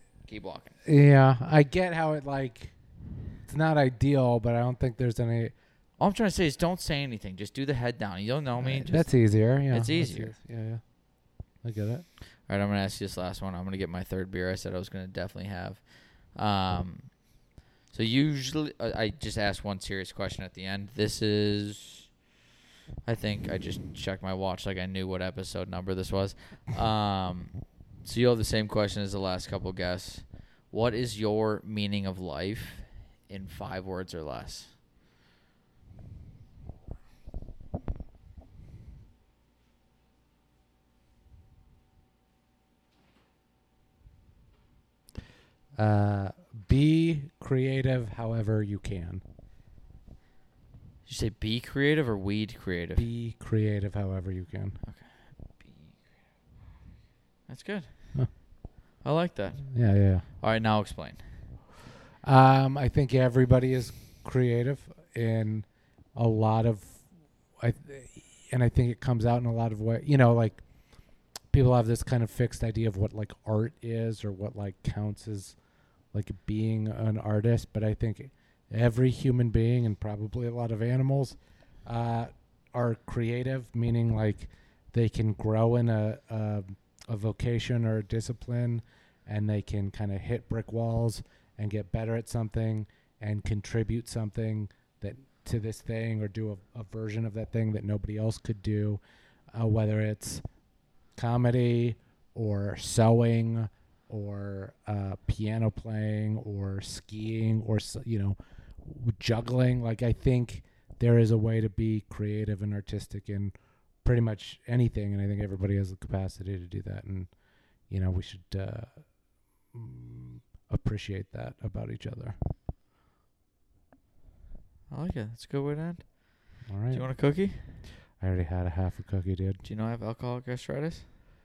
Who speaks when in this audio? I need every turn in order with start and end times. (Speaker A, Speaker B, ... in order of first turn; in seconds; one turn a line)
Speaker A: 0.3-0.7
Speaker B: 0.8-2.7
Speaker B: 3.4-5.5
Speaker A: 6.0-9.1
Speaker B: 8.6-10.8
Speaker A: 9.7-10.3
Speaker B: 11.6-12.0
Speaker A: 12.5-17.1
Speaker A: 17.9-22.1
Speaker A: 23.0-34.7
Speaker B: 45.7-49.2
Speaker A: 51.0-53.0
Speaker B: 53.0-54.8
Speaker A: 57.5-58.4
Speaker A: 59.0-59.8
Speaker B: 59.7-60.2
Speaker A: 60.4-61.2
Speaker B: 62.2-67.0
Speaker B: 67.6-70.6
Speaker B: 71.5-75.6
Speaker B: 76.1-99.0
Speaker B: 99.5-100.4
Speaker B: 101.1-119.1
Speaker B: 119.7-122.4
Speaker A: 124.9-127.8
Speaker B: 126.7-127.1
Speaker B: 128.2-129.6
Speaker A: 129.6-131.1